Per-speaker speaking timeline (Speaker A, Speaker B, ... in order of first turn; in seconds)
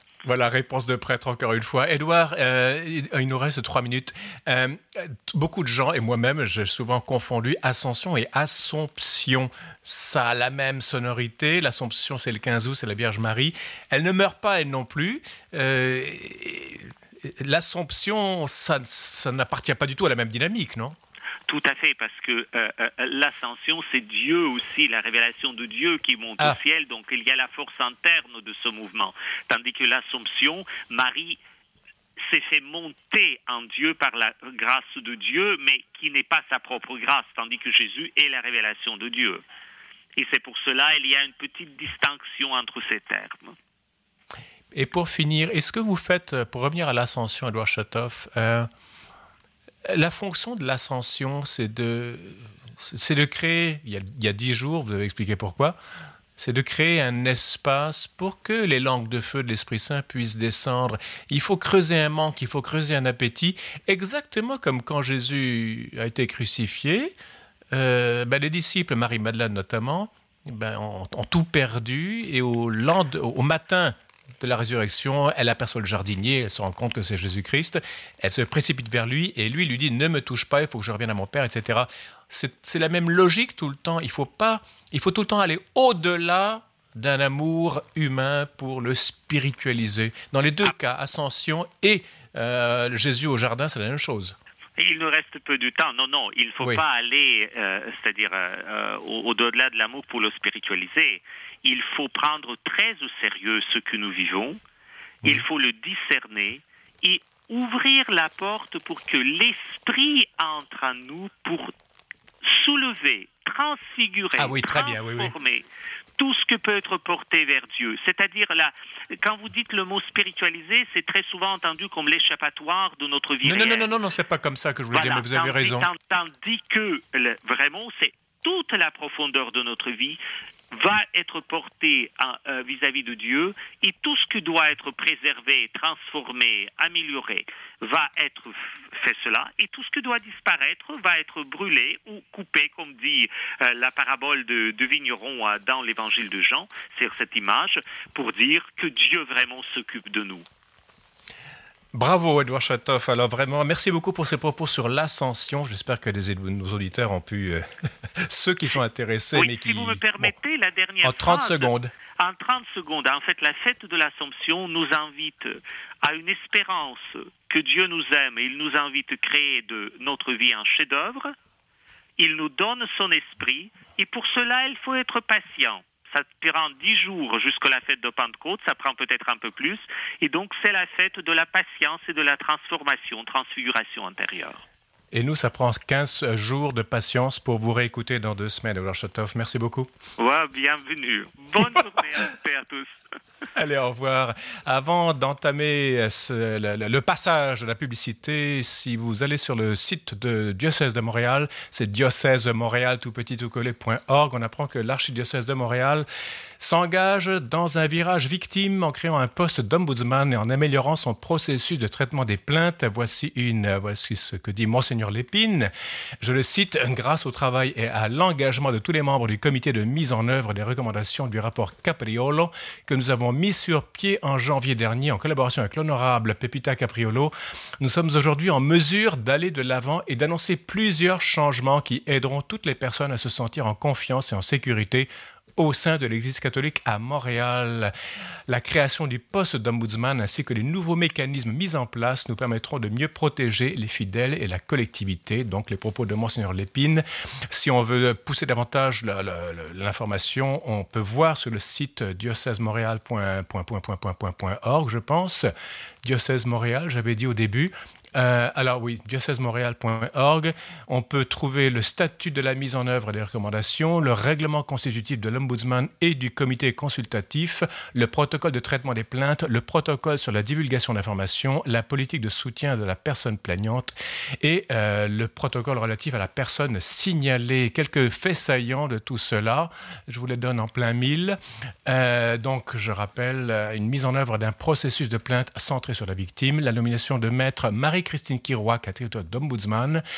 Speaker A: 0.2-21.0, 44.7-48.7, 49.9-55.8, 56.4-67.1, 67.7-94.3, 114.4-115.3, 123.4-125.9, 151.9-160.3, 161.0-161.9, 185.1-189.9, 193.5-206.1, 206.6-215.7, 216.2-237.9, 238.5-255.5, 256.0-290.0
Speaker B: 21.5-31.4, 32.2-39.4, 40.2-43.5, 94.8-104.6, 105.2-111.7, 112.4-115.6, 116.2-124.0, 124.9-130.2, 130.7-150.4, 159.3-171.3, 172.2-184.6, 190.2-193.0